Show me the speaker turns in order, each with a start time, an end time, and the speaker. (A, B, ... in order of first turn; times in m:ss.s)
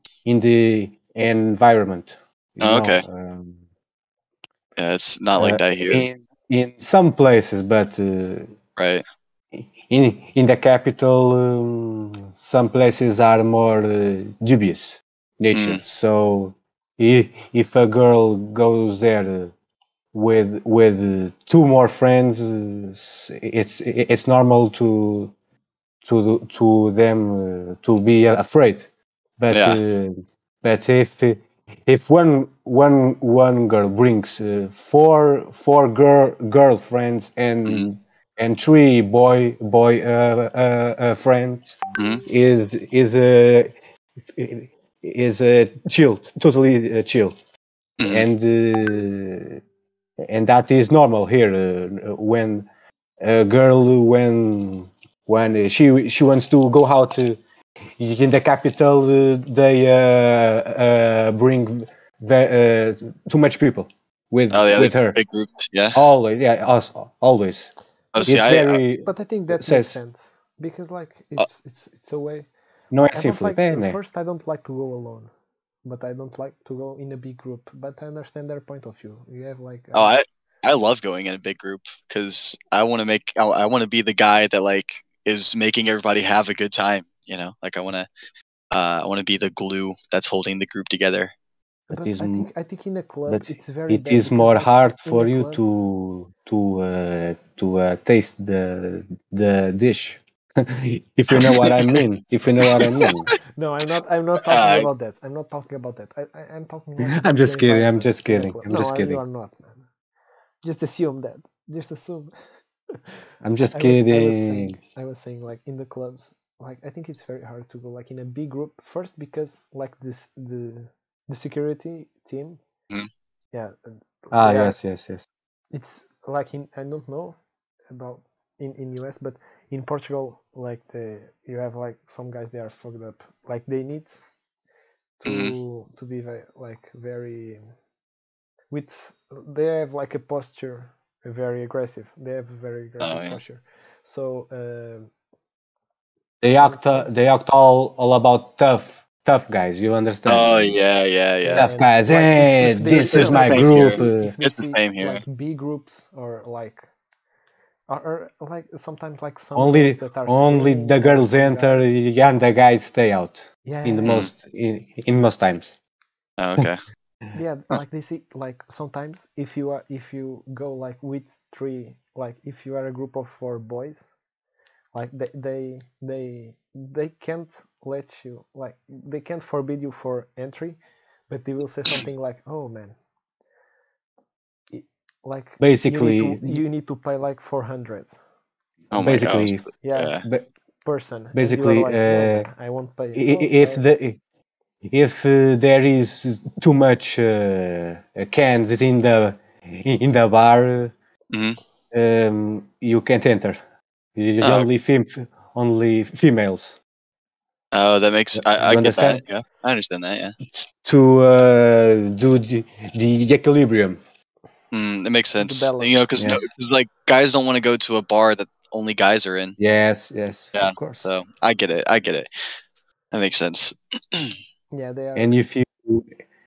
0:00.2-0:03.6 A
0:02.6-0:03.0 B
0:04.8-0:06.0 B
0:05.3-0:08.5 A
0:08.8-0:09.0 B
0:09.5-0:19.5 A
0:15.5-0:15.8 B
0:20.1-0:25.3 A
0:26.0-0:28.9 A
0:29.4-0:43.7 A
0:29.5-0:29.8 B
0:42.0-0:42.2 B
0:44.2-0:47.3 A
0:48.0-0:48.3 B
0:48.0-0:49.6 A
0:50.2-0:52.6 A
0:53.2-0:57.4 A
0:58.0-1:05.2 A
1:04.5-1:06.0 B
1:05.9-1:07.7 A
1:08.1-1:08.8 B
1:08.2-1:10.0 A
1:09.0-1:12.5 C
1:12.9-1:14.0 A
1:13.1-1:15.3 C
1:15.8-1:20.2 C
1:19.9-1:28.1 B
1:28.7-1:31.3 B
1:31.9-1:35.6 C
1:31.9-1:32.5 A
1:33.3-1:43.3 A
1:41.3-1:42.0 B
1:42.6-1:43.3 B
1:43.6-1:49.8 C
1:44.5-1:44.9 B
1:47.0-1:49.2 A
1:50.6-1:52.3 C
1:53.4-1:54.8 A
1:53.6-2:02.6 C
2:03.5-2:04.8 C
2:04.3-2:05.2 A
2:05.7-2:07.4 C
2:07.9-2:14.2 C
2:15.2-2:17.6 C
2:15.2-2:15.5 B
2:18.7-2:25.1 C
2:23.0-2:23.4 B
2:26.4-2:30.8 A
2:26.5-2:27.2 C
2:30.2-2:31.7 B
2:31.4-2:36.8 C
2:31.5-2:34.3 A
2:32.9-2:35.2 B
2:37.9-2:41.8 C
2:39.5-2:45.8 A
2:43.6-2:44.2 C
2:44.0-2:44.3 B
2:46.4-2:46.8 B
2:47.3-2:54.0 C
2:54.9-3:03.0 C
3:04.7-3:08.2 C
3:05.6-3:06.6 A
3:08.9-3:10.2 B
3:08.9-3:09.6 A
3:09.8-3:10.2 C
3:10.8-3:13.8 C
3:11.3-3:12.5 A
3:13.1-3:14.2 A
3:14.8-3:20.9 A
3:21.3-3:21.6 B
3:21.9-3:23.6 A
3:24.2-3:26.8 A
3:24.4-3:24.7 B
3:27.7-3:30.4 B
3:28.4-3:29.2 A
3:30.5-3:34.0 A
3:34.7-3:39.6 B
3:35.4-3:36.0 C
3:36.2-3:36.5 A
3:39.6-3:40.5 A
3:40.5-3:42.3 B
3:40.6-3:41.1 C
3:43.1-3:44.3 B
3:44.7-3:45.4 C
3:45.1-3:46.1 A